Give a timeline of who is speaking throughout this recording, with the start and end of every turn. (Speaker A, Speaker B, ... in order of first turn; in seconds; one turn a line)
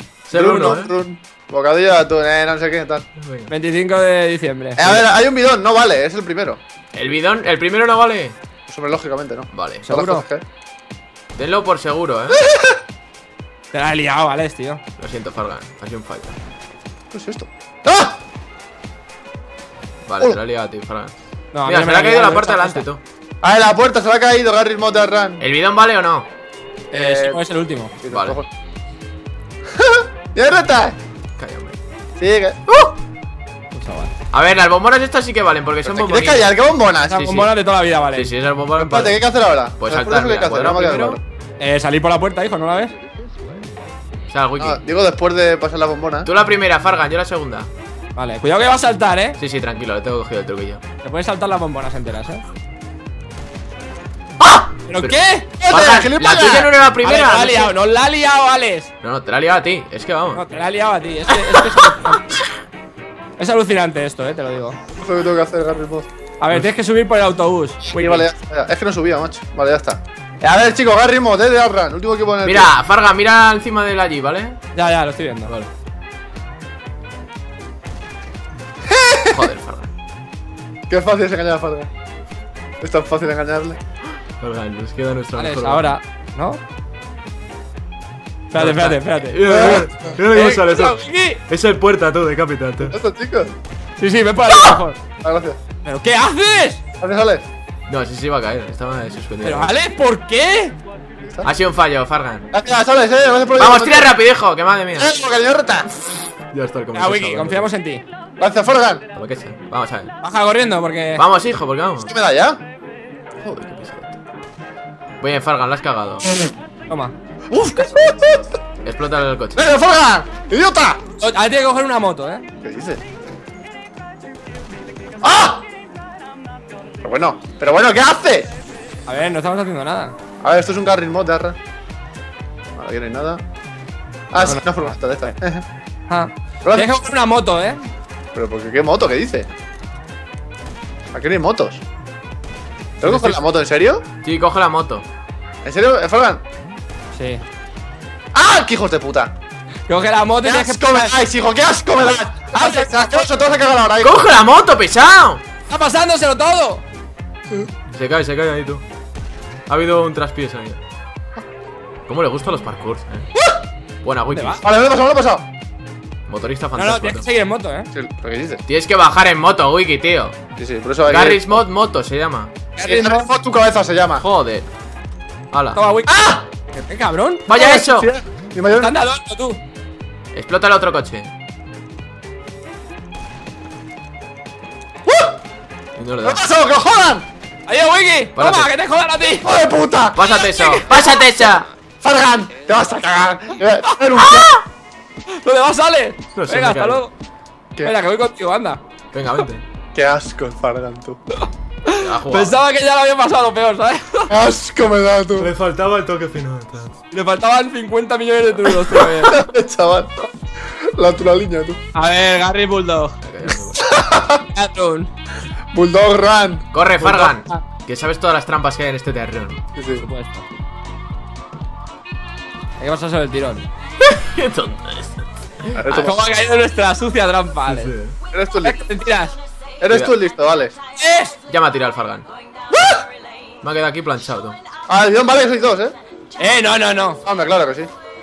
Speaker A: 0.3-0.9
Speaker B: 0.3-3.0
Speaker A: 3.2-3.5
Speaker C: 3.5-5.0
Speaker B: 4.8-6.6
Speaker A: 6.9-8.3
Speaker B: 8.7-10.4
Speaker A: 9.5-9.9
Speaker C: 9.8-10.2
Speaker A: 11.4-12.4
Speaker B: 12.3-12.8
Speaker C: 13.7-14.8
Speaker A: 15.0-16.4
Speaker B: 17.1-18.2
Speaker A: 20.1-21.1
Speaker C: 21.5-22.9
Speaker A: 21.6-23.0
Speaker B: 23.4-25.4
Speaker A: 25.4-26.3
Speaker B: 26.9-27.4
Speaker C: 26.9-27.9
Speaker B: 28.0-28.5
Speaker A: 28.1-28.4
Speaker B: 29.7-31.0
Speaker A: 31.4-31.8
Speaker B: 32.2-32.6
Speaker A: 32.7-32.9
Speaker C: 33.7-34.1
Speaker A: 34.3-36.5
Speaker B: 35.9-37.2
Speaker C: 37.1-38.3
Speaker A: 37.1-37.5
Speaker A: 38.1-39.2
Speaker B: 38.8-41.2
Speaker A: 39.8-41.2
Speaker C: 41.6-42.9
Speaker A: 44.3-44.8
Speaker B: 44.6-46.3
Speaker A: 46.2-47.7
Speaker C: 48.1-49.4
Speaker A: 49.4-50.8
Speaker C: 51.0-52.4
Speaker A: 54.4-55.2
Speaker C: 54.9-55.5
Speaker B: 55.6-56.7
Speaker A: 55.7-57.7
Speaker C: 57.0-58.9
Speaker A: 59.0-60.4
Speaker C: 60.3-62.3
Speaker A: 61.4-62.4
Speaker C: 63.4-64.8
Speaker B: 65.0-66.1
Speaker C: 66.4-68.2
Speaker B: 67.9-72.7
Speaker A: 72.4-74.6
Speaker C: 74.7-75.5
Speaker B: 78.9-79.4
Speaker A: 79.3-79.9
Speaker B: 80.9-81.9
Speaker B: 82.8-83.8
Speaker A: 84.4-85.9
Speaker C: 85.3-86.6
Speaker C: 88.5-89.4
Speaker A: 88.5-92.9
Speaker B: 89.4-89.9
Speaker C: 90.2-91.4
Speaker B: 92.8-93.5
Speaker C: 94.0-95.0
Speaker B: 95.2-95.6
Speaker C: 95.8-96.8
Speaker B: 97.0-97.4
Speaker A: 97.9-99.7
Speaker C: 99.4-100.8
Speaker B: 101.2-101.5
Speaker A: 101.4-102.5
Speaker B: 102.5-104.2
Speaker A: 103.6-105.1
Speaker B: 105.0-105.9
Speaker A: 106.5-107.7
Speaker C: 106.9-108.0
Speaker B: 108.4-109.0
Speaker A: 109.1-110.1
Speaker C: 110.2-111.2
Speaker A: 111.2-112.1
Speaker B: 112.0-112.6
Speaker A: 113.4-114.2
Speaker A: 115.2-116.2
Speaker C: 116.9-117.1
Speaker B: 117.5-118.4
Speaker A: 118.8-119.6
Speaker B: 119.5-121.0
Speaker C: 121.2-122.4
Speaker B: 122.6-123.0
Speaker B: 125.2-125.6
Speaker B: 127.0-128.5
Speaker C: 129.1-130.1
Speaker B: 130.4-131.6
Speaker B: 132.8-133.4
Speaker B: 134.3-135.6
Speaker C: 134.4-135.3
Speaker C: 136.1-137.9
Speaker B: 136.6-136.9
Speaker B: 138.3-139.5
Speaker B: 141.1-141.8
Speaker B: 143.0-144.1
Speaker C: 143.0-143.3
Speaker A: 144.2-145.0
Speaker B: 145.6-146.4
Speaker C: 147.1-147.4
Speaker B: 148.3-149.3
Speaker C: 149.9-151.2
Speaker B: 150.4-154.3
Speaker C: 152.5-153.2
Speaker A: 154.0-155.4
Speaker C: 155.7-156.8
Speaker A: 157.9-158.8
Speaker A: 159.7-160.8
Speaker A: 162.1-163.2
Speaker A: 164.0-164.6
Speaker C: 164.3-164.6
Speaker B: 164.6-165.4
Speaker A: 166.3-167.2
Speaker C: 166.7-167.9
Speaker B: 167.9-168.6
Speaker A: 168.7-170.3
Speaker B: 170.6-171.6
Speaker A: 171.1-172.5
Speaker C: 172.8-173.2
Speaker B: 172.8-174.2
Speaker A: 174.2-174.7
Speaker A: 175.5-175.8
Speaker C: 175.7-177.4
Speaker B: 176.1-176.4
Speaker A: 177.4-178.1
Speaker B: 177.5-178.9
Speaker C: 178.7-179.6
Speaker A: 180.3-181.3
Speaker B: 185.1-185.3
Speaker A: 186.0-186.4
Speaker B: 186.2-187.2
Speaker C: 187.7-189.5
Speaker A: 188.3-188.7
Speaker B: 189.4-190.2
Speaker A: 190.1-191.7
Speaker C: 190.3-191.4
Speaker B: 192.0-194.5
Speaker C: 193.9-194.5
Speaker C: 195.3-197.1
Speaker A: 196.3-197.0
Speaker C: 197.8-198.8
Speaker A: 199.1-199.6
Speaker B: 199.9-201.2
Speaker C: 201.8-204.3
Speaker A: 201.9-202.6
Speaker B: 204.3-205.5
Speaker A: 205.3-206.9
Speaker C: 207.1-209.4
Speaker B: 209.1-210.3
Speaker B: 210.8-211.8
Speaker C: 211.9-213.2
Speaker A: 213.2-213.8
Speaker B: 213.8-214.4
Speaker C: 214.4-215.1
Speaker B: 215.7-217.6
Speaker A: 216.7-219.6
Speaker B: 219.8-220.0
Speaker C: 220.0-220.5
Speaker C: 222.8-223.7
Speaker A: 224.0-226.1
Speaker B: 225.7-226.2
Speaker C: 225.9-227.9
Speaker A: 227.7-228.2
Speaker B: 228.3-228.8
Speaker C: 228.6-229.4
Speaker B: 229.8-230.7
Speaker A: 229.9-230.2
Speaker C: 231.0-231.4
Speaker A: 231.5-232.2
Speaker B: 232.7-233.0
Speaker A: 233.6-234.6
Speaker B: 234.9-235.9
Speaker C: 236.4-237.2
Speaker B: 237.2-237.9